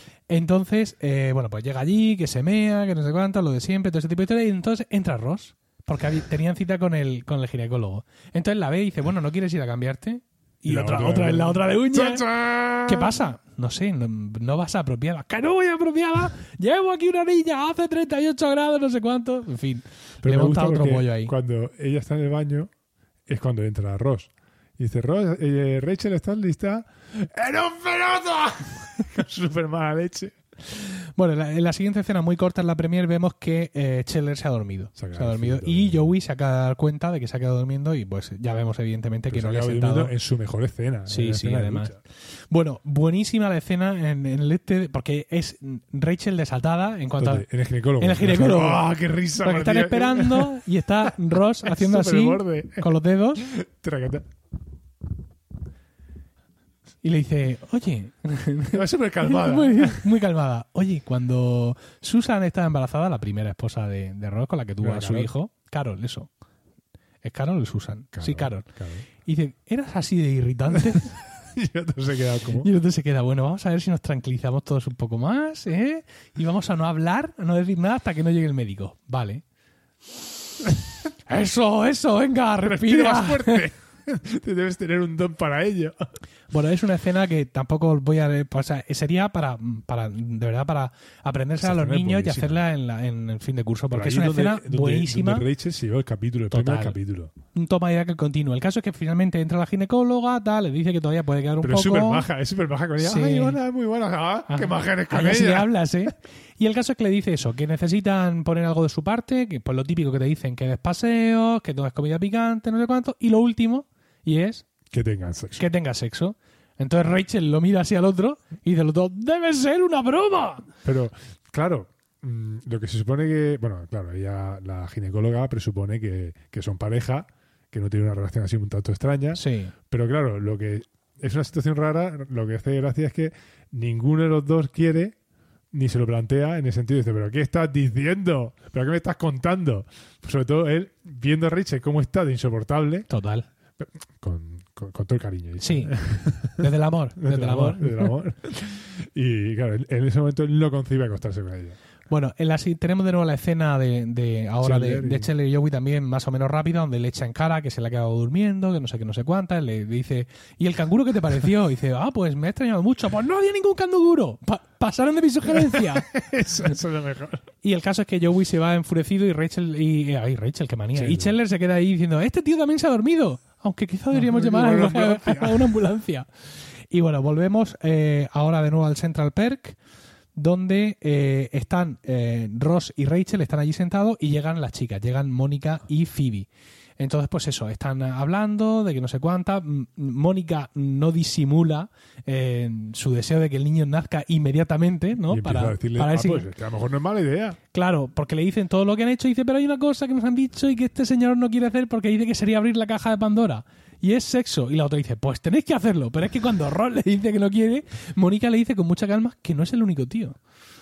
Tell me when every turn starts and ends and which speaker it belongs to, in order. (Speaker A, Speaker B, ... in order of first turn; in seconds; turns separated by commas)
Speaker A: 0.3-12.3, Speaker B: 10.7-13.2, Speaker A: 12.9-21.3, Speaker B: 20.2-22.7, Speaker B: 23.3-30.4, Speaker A: 30.7-40.1, Speaker B: 35.0-36.1, Speaker B: 39.3-42.0, Speaker A: 41.1-42.0, Speaker A: 42.5-47.5, Speaker B: 47.2-54.3, Speaker A: 48.0-53.5, Speaker A: 57.0-66.3, Speaker B: 58.7-60.1, Speaker B: 64.8-65.3, Speaker A: 67.2-68.7, Speaker B: 68.1-69.0, Speaker A: 69.2-71.2, Speaker B: 70.8-72.7, Speaker A: 72.6-79.4, Speaker A: 81.3-83.7, Speaker B: 82.6-86.1, Speaker A: 86.5-95.5, Speaker B: 91.6-92.6, Speaker B: 93.9-97.3, Speaker A: 96.5-97.0, Speaker A: 97.5-102.3, Speaker B: 101.6-105.7, Speaker A: 103.0-103.6, Speaker A: 104.5-114.7, Speaker B: 114.9-115.7, Speaker A: 115.6-120.7, Speaker B: 120.8-135.2, Speaker A: 129.3-129.7, Speaker B: 135.7-143.1, Speaker A: 143.1-143.5, Speaker B: 143.8-151.8, Speaker A: 145.6-146.0, Speaker A: 146.5-148.1, Speaker A: 152.1-166.1, Speaker B: 154.6-155.3, Speaker B: 165.5-167.4, Speaker A: 167.6-176.3, Speaker B: 170.9-171.3, Speaker B: 174.1-175.8, Speaker A: 176.9-179.8, Speaker A: 180.3-186.5, Speaker A: 187.0-196.5, Speaker B: 195.3-197.6, Speaker A: 197.7-210.4